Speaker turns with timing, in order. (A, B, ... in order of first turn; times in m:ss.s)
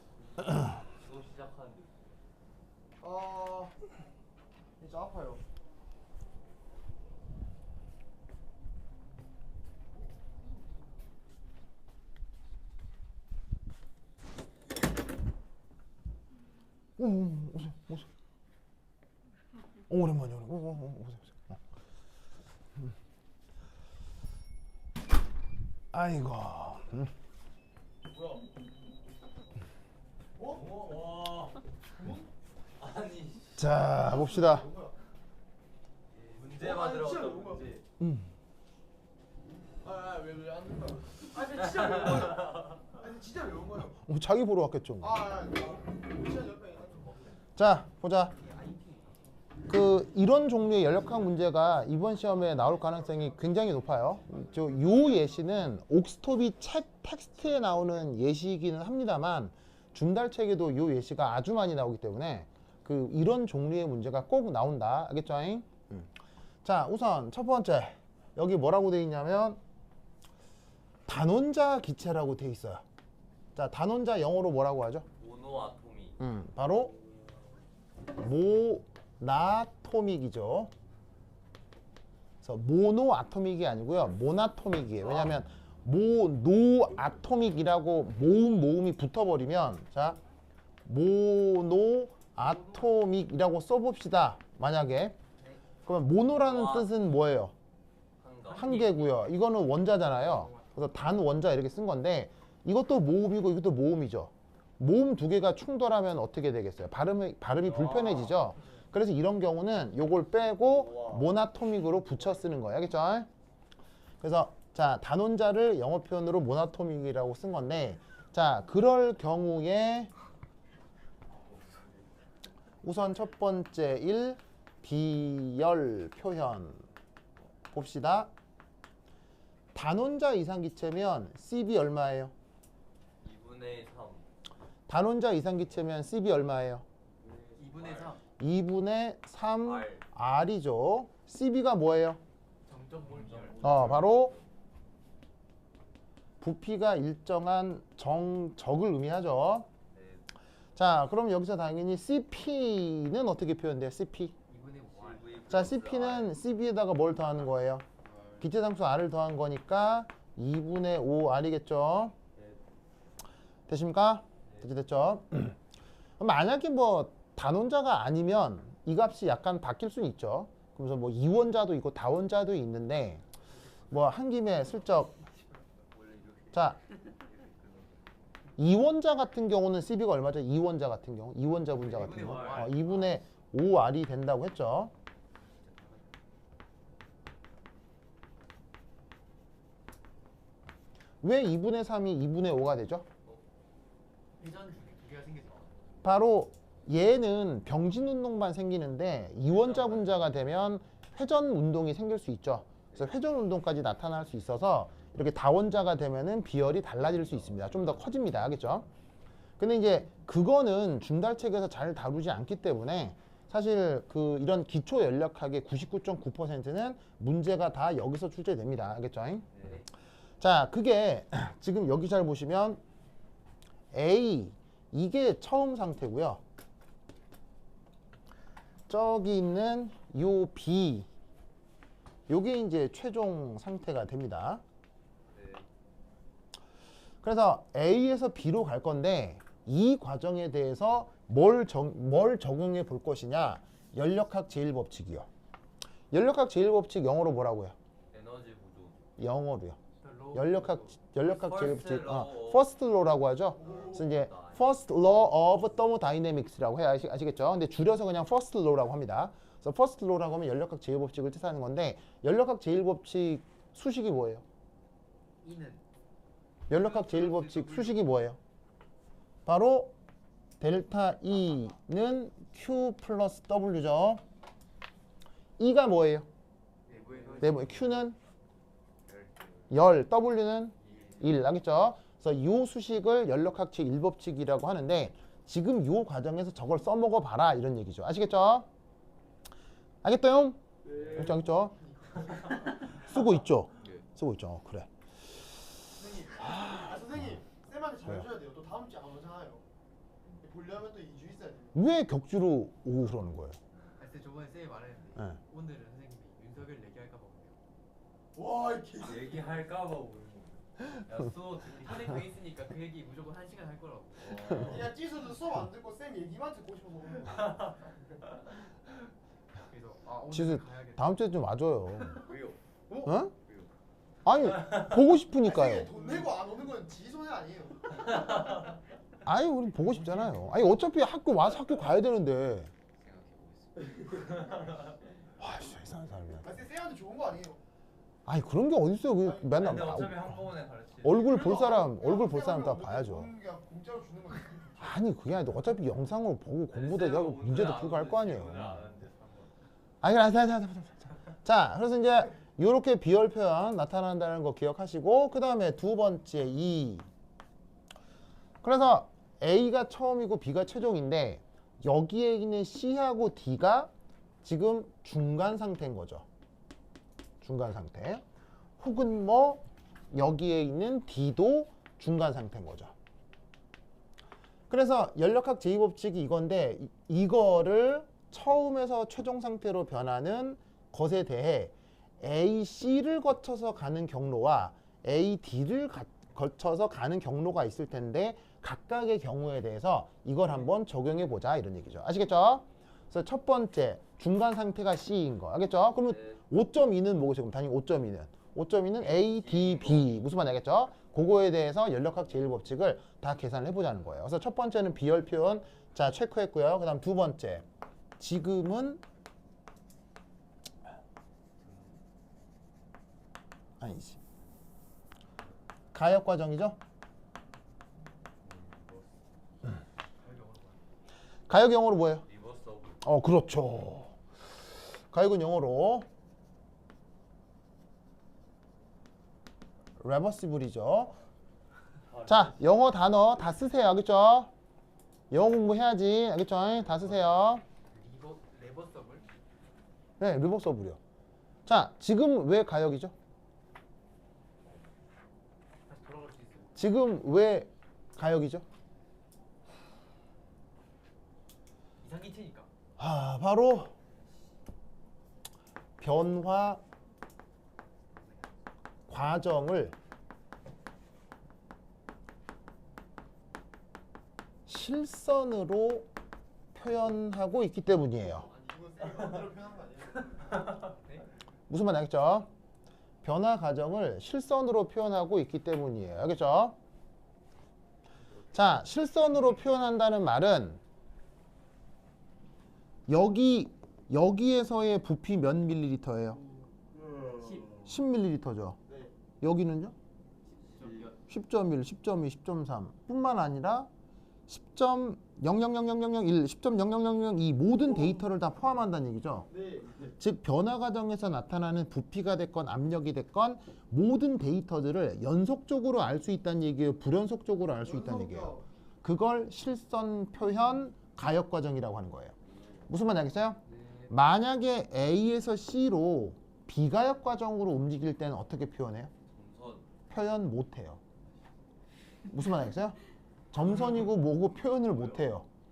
0:00.8-0:02.0 A
0:03.0-0:03.7 B
0:04.8-0:05.4 B
0:17.0-0:18.1 C
0:19.9-0:21.6 C
0:25.9-0:27.1 C
0:30.4-0:30.7 B
0:30.5-0:31.6 A
0:32.0-0:32.3 B
0:32.8-0:33.7 A
0:33.6-0:34.7 C
0:33.8-0:34.9 B
0:36.2-0:37.8 A
0:36.3-0:37.8 B
0:38.0-0:38.3 C
0:39.8-0:41.1 A
0:41.0-0:44.0 B
0:41.7-0:42.6 A
0:44.0-0:45.3 C
0:45.0-0:47.3 B
0:47.6-0:48.3 C
0:48.4-0:49.2 D
0:49.7-1:06.1 C
0:52.7-0:53.3 B
0:54.3-0:55.2 B
1:06.6-1:09.6 C
1:11.0-1:12.8 C
1:13.5-1:15.0 C
1:15.2-1:16.2 A
1:16.2-1:16.9 C
1:18.2-1:20.7 C
1:22.4-1:30.2 C
1:30.8-1:35.2 C
1:32.4-1:32.8 D
1:35.8-1:37.5 C
1:36.3-1:36.9 A
1:38.2-1:38.9 A
1:38.5-1:53.3 C
1:38.5-1:39.1 D
1:40.1-1:40.7 D
1:47.6-1:48.4 A
1:50.6-1:51.3 A
1:54.2-2:00.1 C
2:02.8-2:06.8 C
2:07.7-2:08.3 C
2:09.7-2:12.3 C
2:13.2-2:14.3 A
2:14.9-2:16.8 C
2:17.2-2:18.1 A
2:17.6-2:18.2 D
2:18.4-2:22.2 C
2:19.6-2:20.0 A
2:22.6-2:24.0 D
2:23.0-2:24.5 A
2:23.6-2:24.3 C
2:26.4-2:29.7 C
2:29.9-2:30.3 A
2:30.8-2:34.3 C
2:34.5-2:35.3 D
2:34.9-2:36.3 A
2:35.5-2:37.8 C
2:38.0-2:38.5 D
2:38.4-2:42.1 C
2:43.7-2:45.6 C
2:46.2-2:53.2 C
2:53.5-2:54.2 D
2:53.9-2:55.1 C
2:54.9-2:55.7 D
2:55.9-2:58.1 A
2:58.6-3:04.9 C
3:01.8-3:03.2 D
3:02.1-3:02.7 A
3:05.6-3:06.0 D
3:11.2-3:13.0 C
3:14.4-3:16.0 D
3:16.0-3:28.9 C
3:19.5-3:20.3 A
3:29.6-3:39.5 C
3:39.5-3:39.8 A
3:40.4-3:42.8 C
3:43.9-3:46.4 C
3:48.9-3:51.1 C
3:52.3-3:54.6 C
3:55.3-3:55.6 A
3:57.2-4:05.3 C
4:06.1-4:07.7 C
4:08.1-4:09.0 A
4:09.2-4:09.8 C
4:10.0-4:10.9 D
4:10.3-4:24.4 C
4:11.2-4:12.7 A
4:13.5-4:15.9 A
4:13.6-4:14.0 B
4:25.4-4:25.8 D
4:26.7-4:28.4 C
4:26.7-4:28.0 D
4:29.4-4:29.9 C
4:30.6-4:34.2 C
4:35.6-4:36.3 C
4:36.9-4:37.7 D
4:37.1-4:38.0 A
4:37.4-4:38.2 C
4:39.1-4:39.7 A
4:39.7-4:48.7 C
4:40.8-4:41.2 D
4:50.0-4:51.7 C
4:50.8-4:53.0 B
4:50.9-4:51.4 A
4:52.8-4:54.9 C
4:56.0-4:59.6 B
4:56.4-4:57.4 C
5:00.4-5:01.8 B
5:01.7-5:03.6 C
5:04.0-5:07.6 D
5:08.3-5:09.6 B
5:09.0-5:12.2 A
5:11.8-5:14.6 D
5:14.2-5:15.0 A
5:14.5-5:17.6 B
5:19.7-5:21.2 D
5:20.3-5:22.3 C
5:22.2-5:22.5 D
5:22.2-5:22.5 A
5:23.0-5:23.3 C
5:24.2-5:25.9 C
5:25.4-5:28.5 B
5:29.2-5:32.7 C
5:29.8-5:30.5 B
5:33.0-5:34.6 D
5:34.1-5:35.0 A
5:35.4-5:36.5 C
5:36.4-5:37.6 B
5:38.2-5:40.4 C
5:39.2-5:39.7 B
5:39.4-5:41.5 A
5:41.0-5:43.3 C
5:41.2-5:44.9 B
5:44.8-5:48.8 C
5:46.7-5:49.5 A
5:50.0-5:57.1 C
5:58.6-6:03.9 C
6:04.4-6:06.2 C
6:07.4-6:08.2 C
6:08.8-6:12.9 C
6:14.7-6:47.6 C
6:36.0-6:36.4 A
6:39.2-6:40.1 A
6:48.2-6:49.0 C
6:51.6-6:52.0 A
6:53.8-6:54.2 C
6:55.9-6:56.8 C
6:58.4-6:59.7 A
7:00.1-7:00.8 D
7:01.5-7:02.2 C
7:02.2-7:03.0 A
7:03.0-7:04.2 C
7:05.0-7:06.1 C
7:10.0-7:11.2 C
7:12.1-7:12.7 A
7:12.2-7:14.5 C
7:15.3-7:17.6 C
7:17.9-7:19.2 D
7:20.2-7:21.0 C
7:21.6-7:23.1 C
7:25.9-7:26.8 D
7:26.8-7:28.6 C
7:32.0-7:32.7 D
7:33.0-7:33.9 C
7:36.0-7:36.8 C
7:39.1-7:40.0 C
7:44.6-7:46.1 C
7:46.7-7:48.5 C
7:48.4-7:50.7 B
7:51.7-7:52.5 C
7:53.2-7:56.8 C
7:58.5-8:00.8 C
8:03.1-8:06.4 C
8:07.4-8:07.8 D
8:07.8-8:08.8 C
8:09.4-8:09.9 C
8:10.4-8:11.2 D
8:11.3-8:13.9 C
8:14.5-8:19.5 C
8:19.5-8:20.2 B
8:20.2-8:32.3 C
8:27.8-8:28.6 B
8:32.9-8:39.1 C
8:39.3-8:39.9 A
8:40.1-8:41.0 C
8:42.3-8:43.0 C
8:43.5-8:45.4 C